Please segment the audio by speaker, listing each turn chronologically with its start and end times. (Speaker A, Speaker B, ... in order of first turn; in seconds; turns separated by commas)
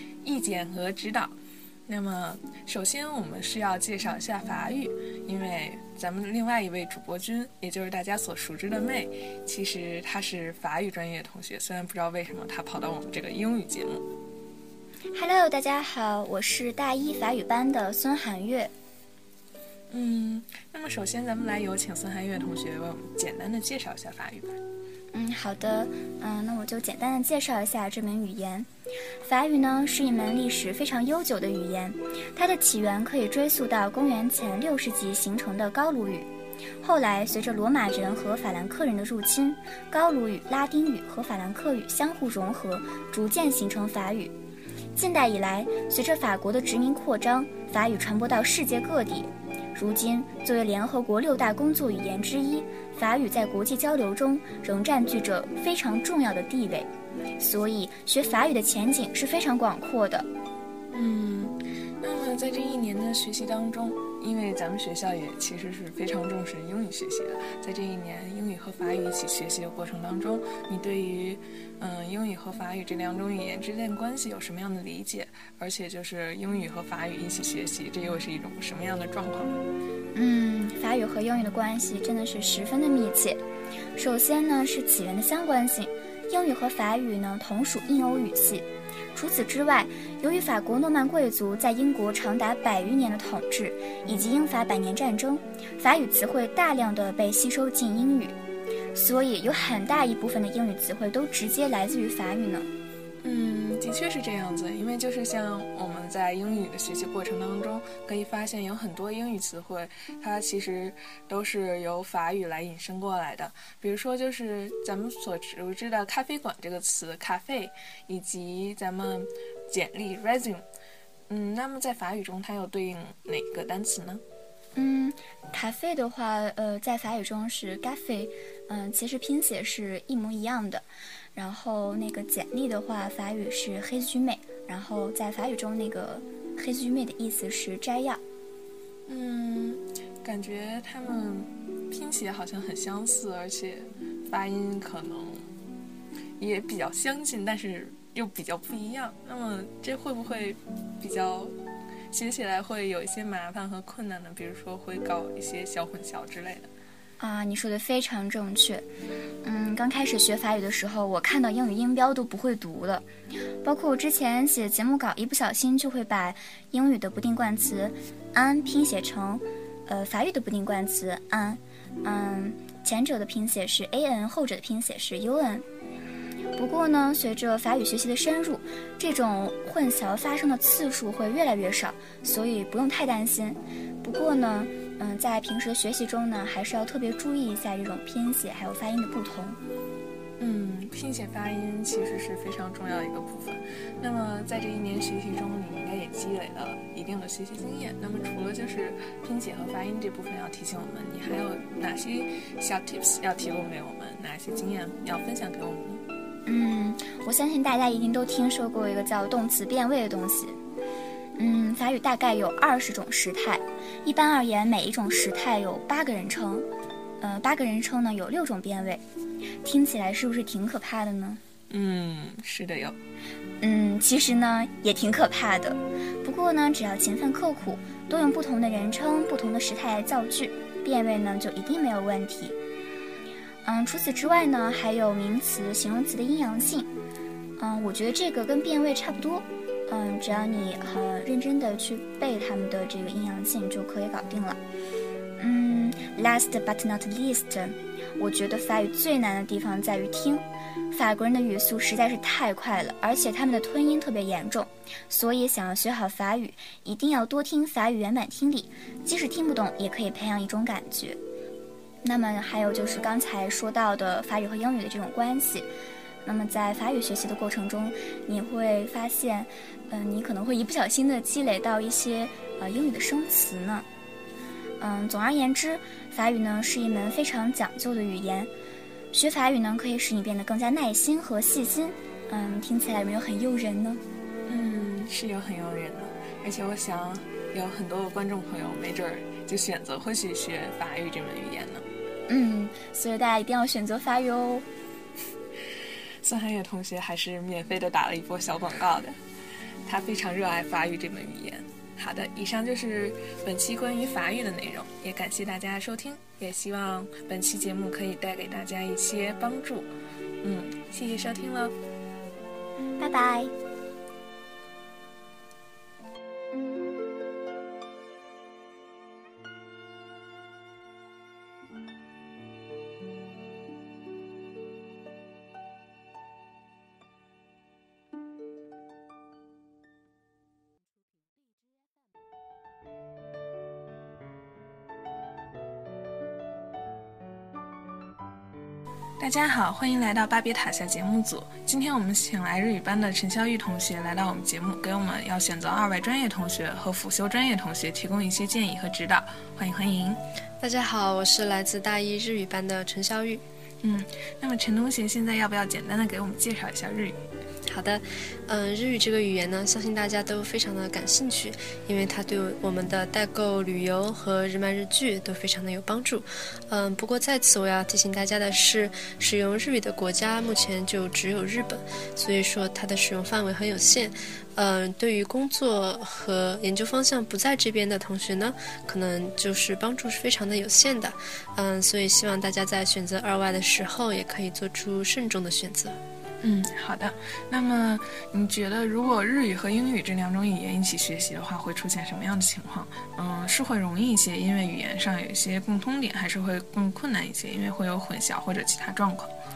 Speaker A: 0.2-1.4, Speaker A: 1.9-14.0, Speaker B: 15.1-18.7, Speaker A: 19.9-24.6, Speaker B: 25.1-28.7, Speaker B: 29.2-36.3, Speaker B: 36.8-44.3, Speaker B: 44.9-60.3, Speaker A: 60.9-79.6, Speaker B: 80.1-83.4, Speaker B: 84.0-98.3, Speaker B: 98.9-102.7, Speaker A: 103.2-120.6, Speaker A: 121.3-124.2, Speaker B: 124.7-138.2, Speaker A: 139.1-145.5, Speaker A: 146.4-151.5, Speaker A: 152.1-156.7, Speaker B: 157.2-158.9, Speaker B: 159.4-163.1, Speaker B: 163.6-175.7, Speaker B: 176.6-189.6, Speaker A: 190.4-206.0, Speaker B: 206.4-210.6, Speaker B: 211.3-216.7, Speaker B: 217.2-219.0, Speaker B: 219.6-221.4, Speaker A: 221.7-223.0, Speaker B: 223.6-232.6, Speaker B: 233.6-236.9, Speaker B: 237.6-244.6, Speaker B: 245.4-261.2, Speaker B: 262.0-265.7, Speaker B: 266.2-273.9, Speaker B: 274.8-278.5, Speaker B: 279.1-284.0, Speaker A: 284.4-291.8, Speaker B: 292.3-294.7, Speaker A: 296.2-299.1, Speaker A: 299.8-309.9, Speaker A: 310.4-311.8, Speaker B: 313.0-313.5, Speaker A: 339.2-350.2, Speaker C: 350.6-353.4, Speaker A: 353.8-357.2, Speaker C: 357.6-386.0, Speaker A: 386.4-399.3